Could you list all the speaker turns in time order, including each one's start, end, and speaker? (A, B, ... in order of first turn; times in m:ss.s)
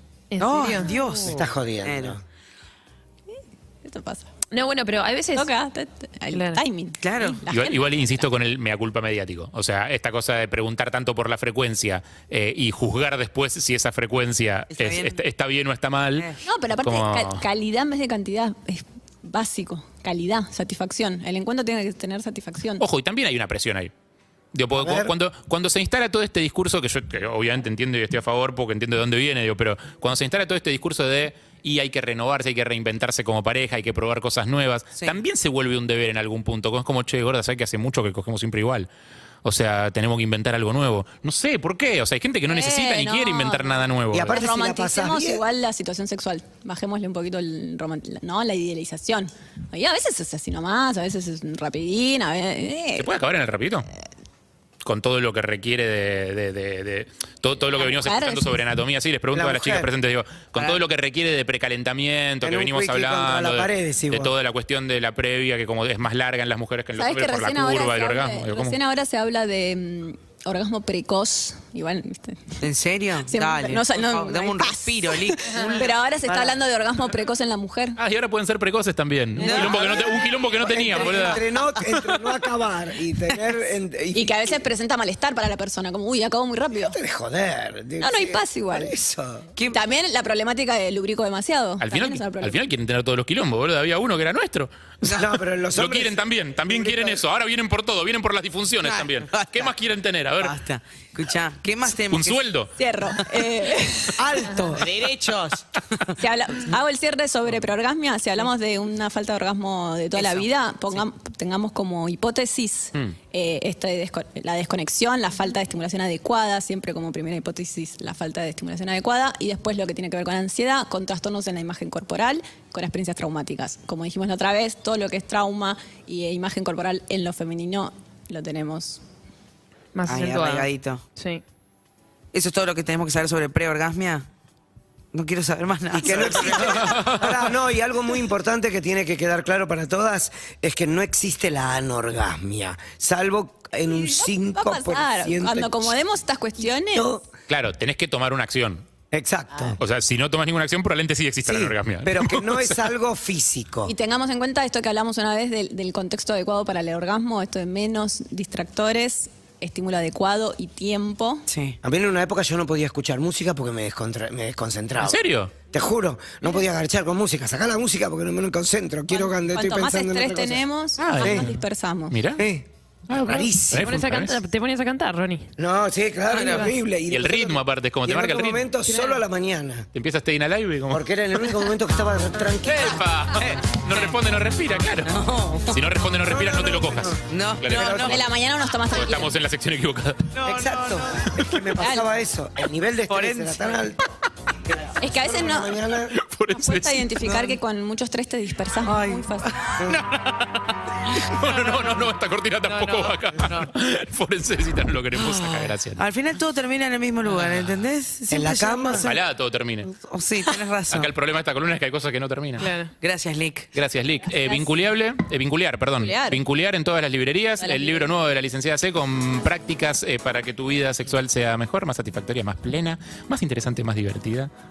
0:00.3-0:01.3 A
0:00.4-0:02.2 B
0:01.2-0:02.2 C
0:03.3-0:04.3 D
0:04.5-0:05.5 A
0:05.3-0:08.3 D
0:06.3-0:06.6 A
0:07.0-0:07.4 B
0:07.5-0:17.4 E
0:14.7-0:15.2 B
0:16.4-0:22.8 D
0:22.8-0:23.9 E
0:24.5-0:38.9 E
0:24.7-0:25.1 C
0:39.4-0:44.4 E
0:42.4-0:53.1 D
0:44.1-0:45.4 C
0:53.0-0:53.9 E
0:54.8-1:08.8 E
0:57.7-0:58.6 D
0:59.3-0:59.9 C
1:02.4-1:04.3 C
1:06.9-1:12.6 D
1:12.6-1:16.0 B
1:13.2-1:18.0 D
1:16.3-1:16.6 C
1:18.0-1:21.4 E
1:19.4-1:20.0 D
1:19.4-1:21.4 B
1:19.6-1:24.6 C
1:24.1-1:27.0 D
1:26.7-1:29.5 C
1:28.0-1:28.9 D
1:29.6-1:32.6 D
1:31.8-1:40.6 E
1:35.2-1:37.2 C
1:38.8-1:39.7 B
1:40.4-1:42.4 B
1:42.0-1:42.7 E
1:42.8-1:44.2 D
1:44.2-1:44.9 C
1:44.7-1:46.2 B
1:46.2-2:09.0 D
1:50.1-1:51.0 B
2:09.9-2:11.4 A
2:10.0-2:11.0 B
2:12.3-2:14.3 B
2:15.1-2:17.3 B
2:15.9-2:25.9 C
2:16.8-2:17.2 E
2:23.9-2:27.1 D
2:26.9-2:27.2 C
2:27.5-2:28.8 E
2:29.1-2:29.8 C
2:29.8-2:32.8 E
2:31.4-2:33.9 C
2:33.8-2:41.4 D
2:41.5-2:41.8 B
2:41.8-2:45.2 C
2:45.0-2:45.5 E
2:45.7-2:50.6 C
2:49.1-2:52.2 D
2:51.0-2:51.5 E
2:51.2-2:51.5 C
2:52.1-2:52.4 E
2:52.4-2:53.9 C
2:53.1-2:54.4 E
2:53.4-2:55.5 A
2:55.6-2:59.9 C
2:56.3-2:56.7 B
2:57.1-2:58.7 E
2:59.9-3:01.0 E
3:00.9-3:03.0 C
3:02.6-3:08.3 E
3:05.0-3:05.8 B
3:06.2-3:08.1 C
3:07.3-3:08.1 B
3:08.0-3:09.3 D
3:08.8-3:10.3 E
3:10.3-3:11.3 B
3:10.4-3:14.1 C
3:11.8-3:12.0 D
3:13.1-3:13.8 B
3:14.6-3:16.1 C
3:15.0-3:15.8 D
3:16.1-3:17.1 E
3:16.6-3:19.5 D
3:17.2-3:17.6 B
3:18.8-3:21.9 B
3:19.8-3:20.0 C
3:21.1-3:26.0 E
3:22.6-3:23.7 B
3:25.2-3:29.1 B
3:27.3-3:27.8 E
3:28.3-3:29.1 C
3:29.0-3:29.9 E
3:29.9-3:31.1 B
3:30.9-3:32.7 E
3:32.6-3:32.9 A
3:33.0-3:33.7 B
3:33.7-3:44.5 E
3:34.4-3:34.6 D
3:36.0-3:36.4 D
3:37.6-3:38.1 D